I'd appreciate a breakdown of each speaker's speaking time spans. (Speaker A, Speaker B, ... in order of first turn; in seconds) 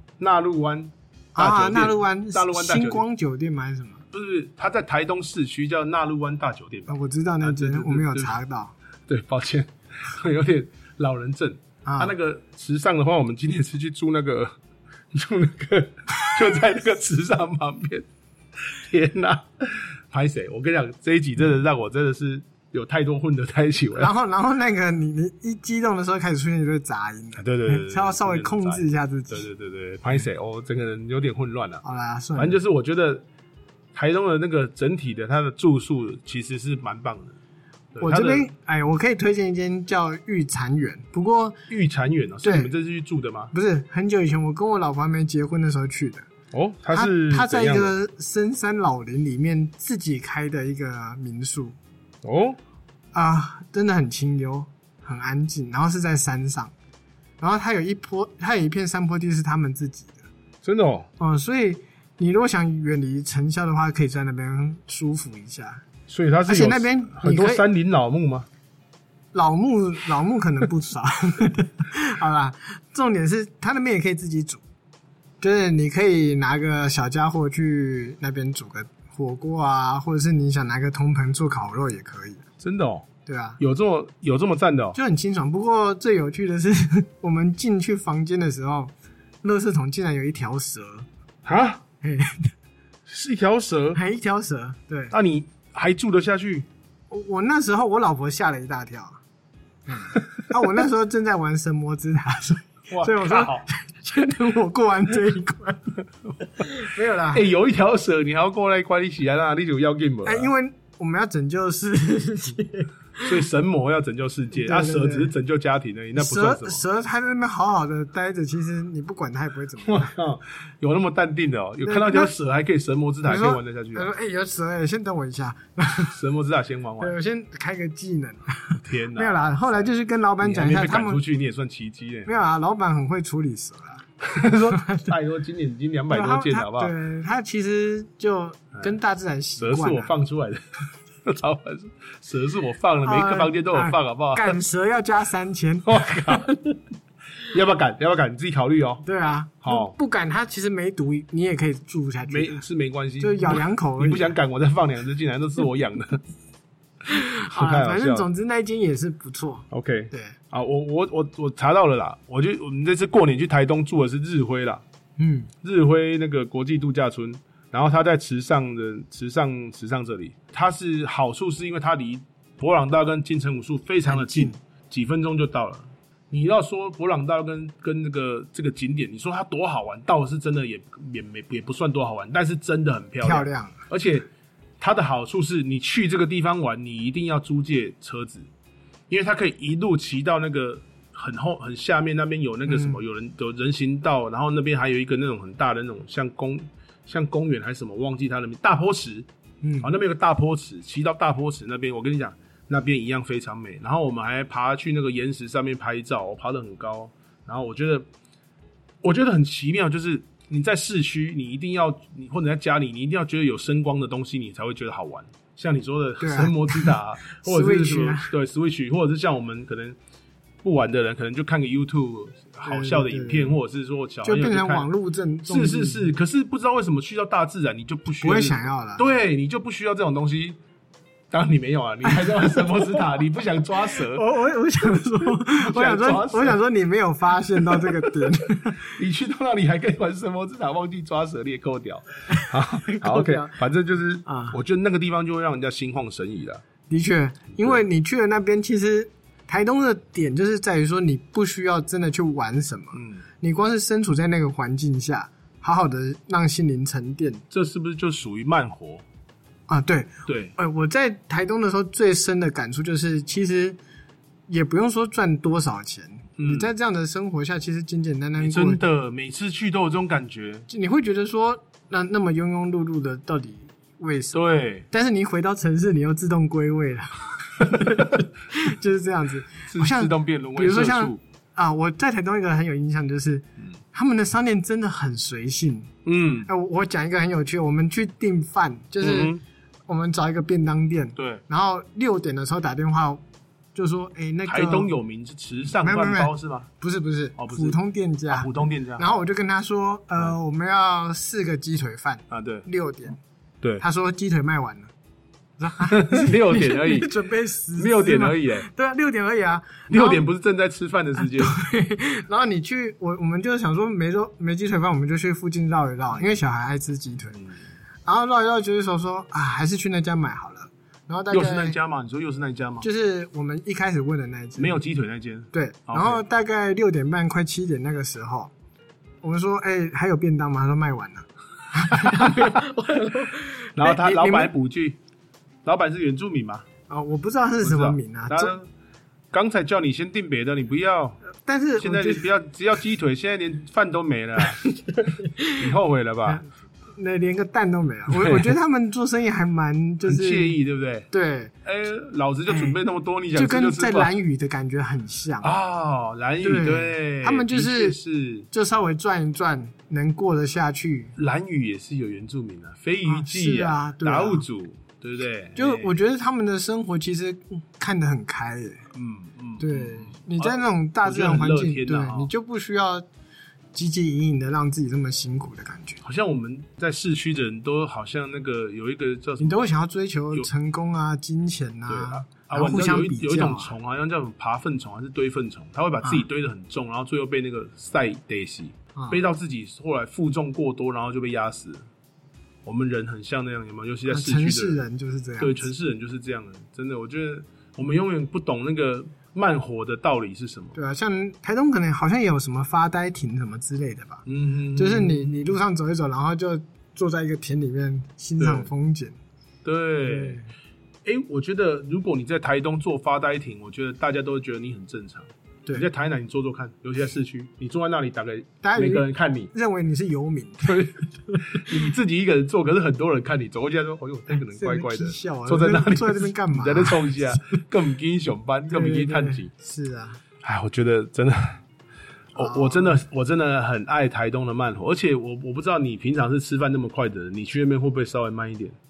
Speaker A: 0.2-3.0, 4.1-8.3, 9.1-14.5, 15.1-18.1, 18.6-24.1, 27.4-31.8, 32.4-33.2, 33.9-37.3, 37.9-38.5, 41.7-43.5, 46.5-47.9, 52.2-52.6, 60.6-61.1, 66.1-68.5, 82.6-83.1, 83.6-85.0, 91.4-91.8, 93.1-94.0, 95.1-96.7, 102.9-103.7, 107.3-110.5, 113.2-116.8, 119.8-124.1, 126.1-127.2, 128.8-129.9, 130.4-132.3, 134.2-136.9, 139.6-140.6, 141.2-144.6, 145.8-146.4, 147.5-149.0, 149.6-149.9, 152.3-156.2, 157.1-158.2, 159.7-164.8, 165.6-184.3, 184.8-188.5, 189.1-199.3, 199.8-208.1, 209.0-220.0, 220.6-224.9, 225.4-230.6, 231.3-234.2, 235.3-236.6, 237.5-246.6, 252.9-253.2, 257.5-259.0, 260.3-260.5, 266.4-266.7, 268.4-270.7, 274.3-274.8, 279.7-281.2, 286.0-286.5, 289.0-289.4, 291.1-291.4, 294.4-296.7, 297.4-297.8, 298.3-299.1, 302.3-302.6, 305.9-307.1, 307.7-308.7, 309.9-311.6, 316.1-316.4, 321.3-322.9, 324.6-326.2, 331.9-332.6, 333.8-335.0, 335.6-336.6, 337.6-338.7, 339.3-341.2, 341.8-344.6, 345.6-346.4, 348.1-348.5, 350.1-351.1, 351.6-354.1, 355.4-358.5, 361.1-365.9, 368.9-372.3, 376.0-379.7, 381.9-391.9, 392.6-394.8, 395.4-400.8, 404.2-405.5, 408.4-408.7, 409.6-410.4, 411.0-419.5, 420.6-429.5, 430.4-431.6, 432.3-438.8
Speaker B: 1.4-4.0, 6.9-8.8, 11.8-12.1, 24.0-29.4, 31.8-32.6, 38.0-41.6, 42.4-42.7, 43.5-46.3, 46.9-51.8, 53.1-56.7, 57.4-60.2, 61.2-65.8, 66.5-67.6, 69.3-74.6, 75.4-82.4, 83.2-83.6, 84.9-91.1, 92.0-92.5, 93.9-95.1, 97.1-99.2, 99.9-106.0, 106.6-107.5, 110.2-113.4, 114.5-115.3, 116.1-120.1, 121.8-122.3, 123.2-126.2, 127.0-131.2, 132.2-134.0, 134.7-135.1, 136.1-140.1, 143.0-146.8, 149.0-152.6, 153.2-154.3, 157.1-160.4, 165.2-165.5, 174.0-174.6, 183.2-183.8, 192.7-193.0, 199.6-199.9, 216.2-218.3, 222.6-223.6, 224.2-226.1, 228.2-229.0, 232.0-233.2, 233.9-238.9, 242.3-243.6, 244.2-244.6, 246.9-257.4, 259.7-263.8, 264.5-268.8, 270.7-285.9, 286.4-289.3, 289.9-293.2, 293.7-294.9, 295.8-303.2, 303.8-304.9, 305.6-310.2, 311.2-317.4, 318.1-321.8, 322.8-324.8, 325.5-328.5, 329.2-334.5, 336.9-338.5, 341.4-342.3, 344.4-345.6, 346.3-350.6, 351.1-351.5, 352.5-352.8, 353.3-355.5, 356.4-358.0, 358.5-361.1, 363.0-364.4, 365.6-368.9, 369.6-373.0, 373.7-376.0, 379.4-383.8, 394.1-395.7, 400.7-409.2, 410.1-410.4, 418.6-421.8, 424.3-427.6, 428.7-430.2, 432.4-433.0